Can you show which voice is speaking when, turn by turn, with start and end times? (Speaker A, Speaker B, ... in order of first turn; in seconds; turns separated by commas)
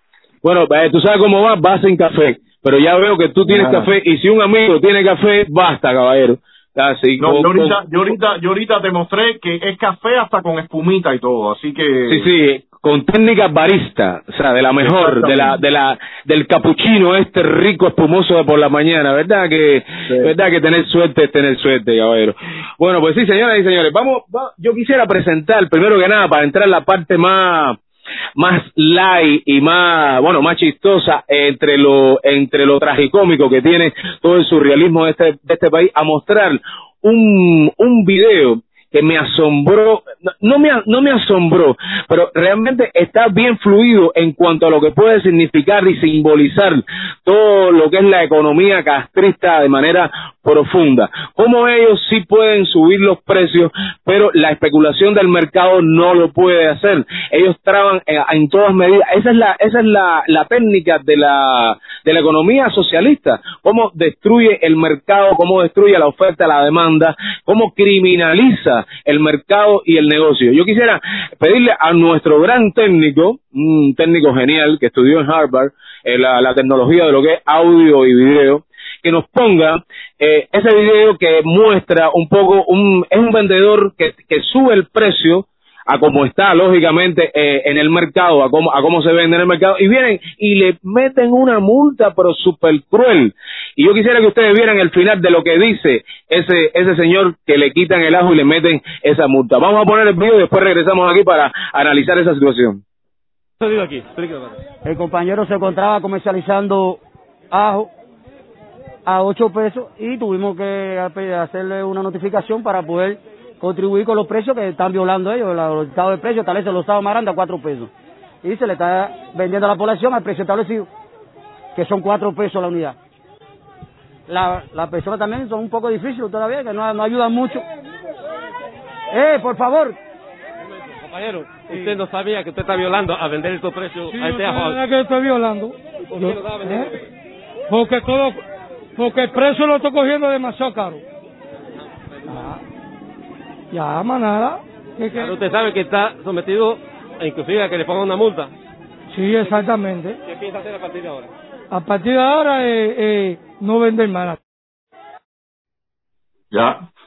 Speaker A: 0.4-7.8, Speaker B: 3.4-3.9, Speaker B: 7.2-12.3, Speaker A: 12.1-27.8, Speaker B: 14.8-15.6, Speaker A: 28.4-102.8, Speaker C: 103.6-104.6, Speaker D: 104.8-107.0, Speaker D: 107.5-107.9, Speaker D: 109.0-117.9, Speaker D: 118.4-120.9, Speaker D: 121.7-123.0, Speaker D: 124.3-127.6, Speaker D: 129.1-130.0, Speaker C: 130.6-134.8, Speaker E: 134.1-136.9, Speaker C: 136.1-136.9, Speaker E: 137.7-138.4, Speaker E: 139.0-141.0, Speaker E: 142.3-142.6, Speaker E: 143.7-145.3, Speaker C: 145.1-148.5, Speaker E: 149.1-150.2, Speaker C: 150.2-151.3, Speaker E: 151.7-154.4, Speaker B: 156.5-156.8